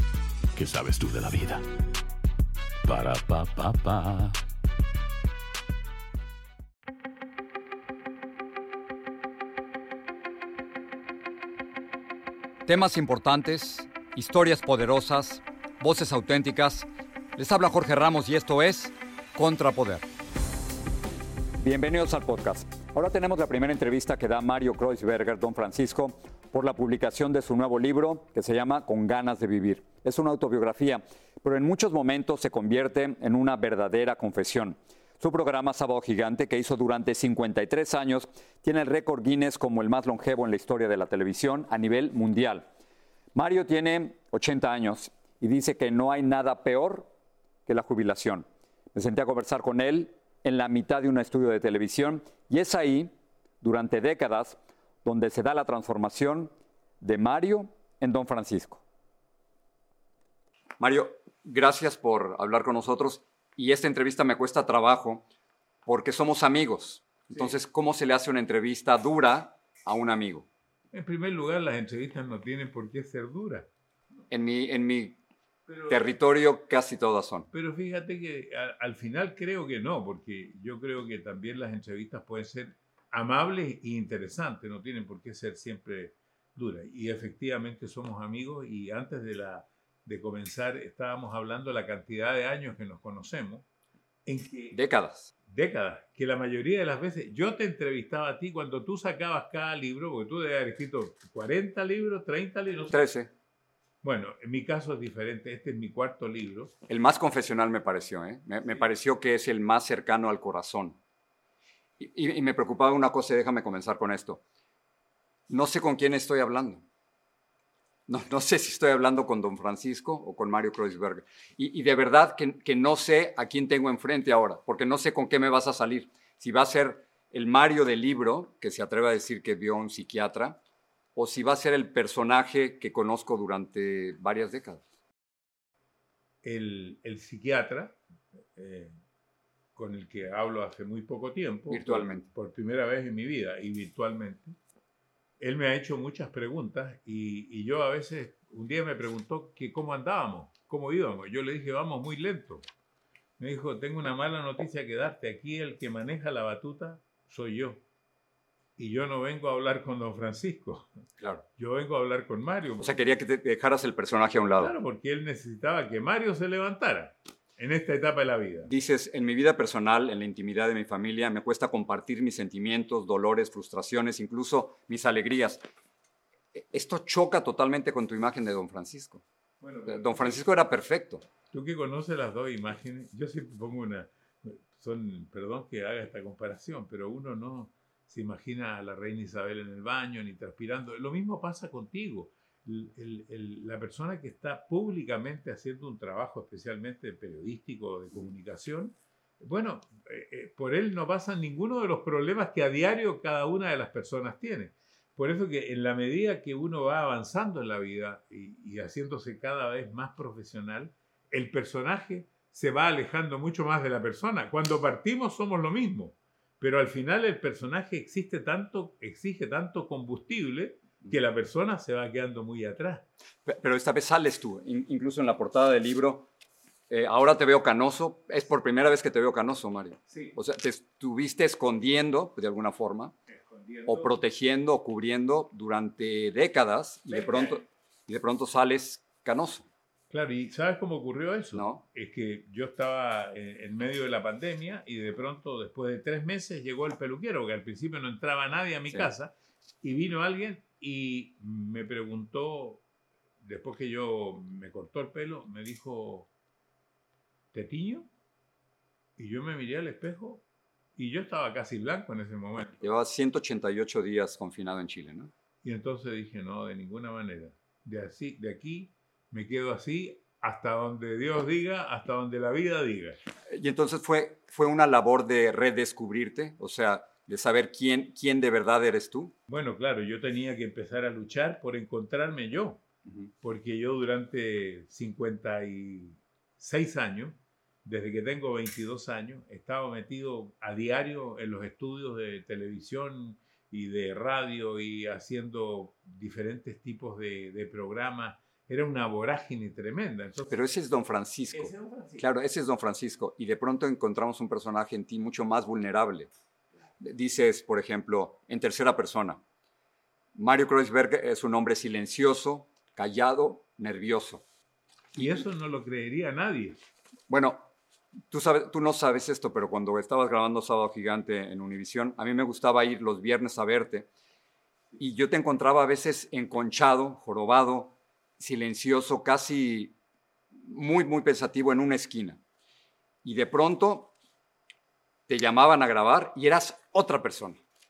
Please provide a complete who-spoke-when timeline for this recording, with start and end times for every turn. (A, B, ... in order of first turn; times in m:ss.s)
0:00.5-0:01.6 A
0:02.8-0:04.4 A
0:12.6-0:20.0 B
0:21.6-0:42.7 B
0:43.3-0:47.1 B
0:47.6-0:58.8 B
1:00.8-1:05.2 B
1:05.8-1:10.4 B
1:10.9-1:13.7 C
1:14.3-1:15.2 B
1:15.7-1:16.0 C
1:15.9-1:17.5 B
1:17.5-1:33.6 C
1:34.2-1:34.8 C
1:34.7-1:35.3 B
1:35.4-1:43.0 C
1:42.9-1:43.3 B
1:44.0-1:46.7 C
1:46.9-1:51.0 B
1:52.0-1:54.4 B
1:55.5-1:56.8 B
1:58.1-2:10.6 B
2:11.2-2:14.8 B
2:16.4-2:18.0 C
2:18.5-2:19.0 C
2:19.7-2:24.5 C
2:21.7-2:22.2 B
2:25.4-2:32.6 C
2:33.4-2:37.8 C
2:38.8-2:40.9 C
2:41.6-2:42.9 C
2:42.8-2:44.7 B
2:44.6-2:48.7 C
2:48.6-2:55.6 B
2:56.5-2:59.2 B
2:59.6-3:00.4 C
2:59.9-3:01.2 B
3:01.5-3:43.0 C
3:43.4-3:46.3 B
3:46.9-3:53.1 B
3:50.1-3:50.4 C
3:53.3-3:54.1 C
3:53.8-3:59.6 B
3:57.1-3:57.6 C
4:00.1-4:12.8 C
4:01.5-4:01.8 B
4:13.4-4:16.3 C
4:17.5-4:18.1 C
4:19.2-4:20.4 C
4:21.0-4:22.9 C
4:22.8-4:25.3 B
4:25.6-4:33.2 C
4:33.5-4:39.3 B
4:39.5-4:42.8 C
4:43.4-5:00.6 C
5:00.5-5:06.3 B
5:01.5-5:02.2 C
5:07.0-5:09.4 B
5:10.3-5:14.4 B
5:15.1-5:16.8 C
5:17.3-5:17.7 B
5:18.3-5:24.1 B
5:25.0-5:29.9 B
5:30.6-5:32.4 B
5:33.2-5:34.1 B
5:35.3-5:37.6 B